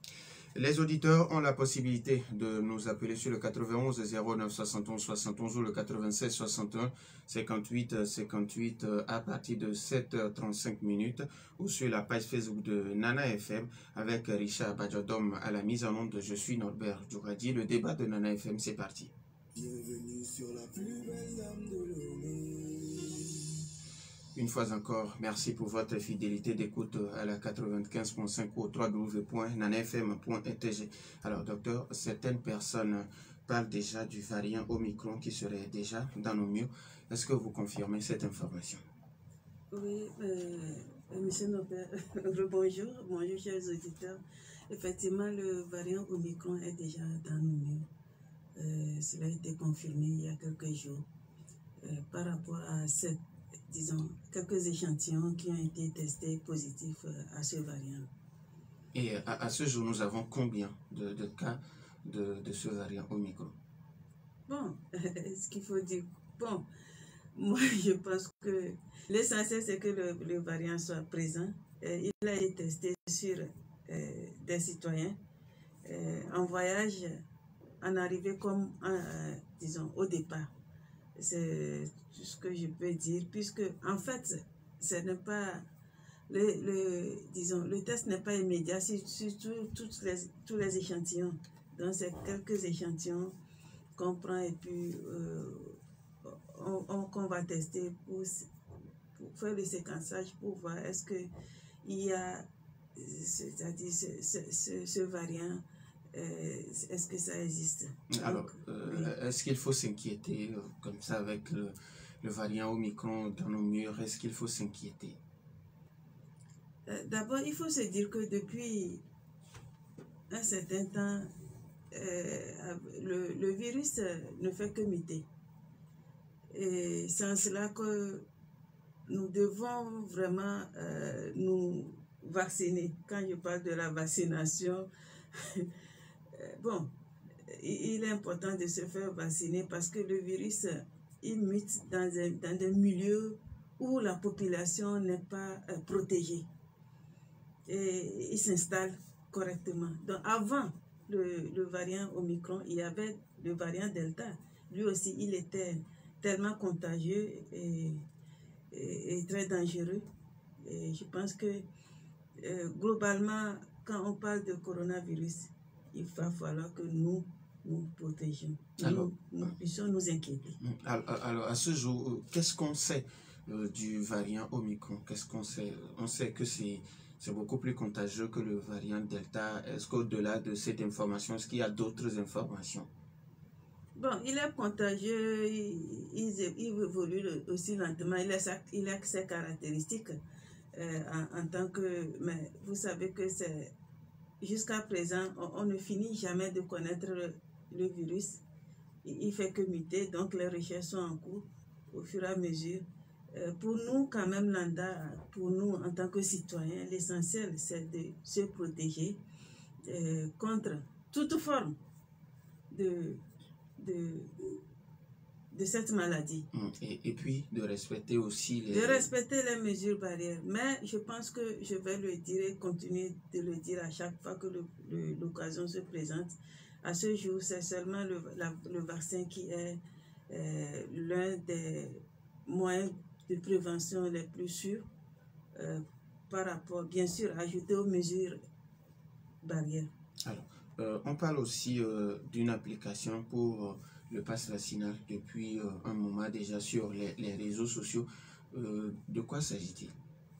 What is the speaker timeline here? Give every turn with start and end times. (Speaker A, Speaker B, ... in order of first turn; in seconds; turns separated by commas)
Speaker A: 0.6-19.1, Speaker B: 19.6-23.3, Speaker A: 24.3-38.8, Speaker C: 39.7-47.9, Speaker C: 48.6-51.1, Speaker C: 51.8-58.1, Speaker A: 58.9-63.6, Speaker C: 64.5-66.7, Speaker C: 67.3-75.2, Speaker C: 75.8-77.2, Speaker C: 77.8-80.5, Speaker C: 81.2-85.7, Speaker C: 86.3-93.4, Speaker C: 94.0-98.5, Speaker C: 99.2-101.3, Speaker C: 101.8-109.1, Speaker A: 108.1-115.2, Speaker C: 116.9-119.0, Speaker C: 120.3-121.3, Speaker C: 121.9-125.3, Speaker C: 126.5-128.3, Speaker C: 129.1-135.7, Speaker C: 136.3-136.9, Speaker C: 137.5-146.5, Speaker C: 147.7-158.1, Speaker C: 158.7-160.1, Speaker C: 160.6-161.7, Speaker C: 162.4-170.6, Speaker A: 168.8-169.5, Speaker A: 170.6-182.9, Speaker C: 184.0-190.2, Speaker C: 190.7-193.7, Speaker C: 194.4-198.4, Speaker C: 199.0-209.2, Speaker C: 209.8-211.8, Speaker C: 212.7-213.2, Speaker C: 213.8-214.5, Speaker C: 215.5-216.5, Speaker A: 216.5-219.1, Speaker C: 218.7-234.8, Speaker C: 235.6-238.4, Speaker C: 239.4-239.9, Speaker A: 240.2-249.9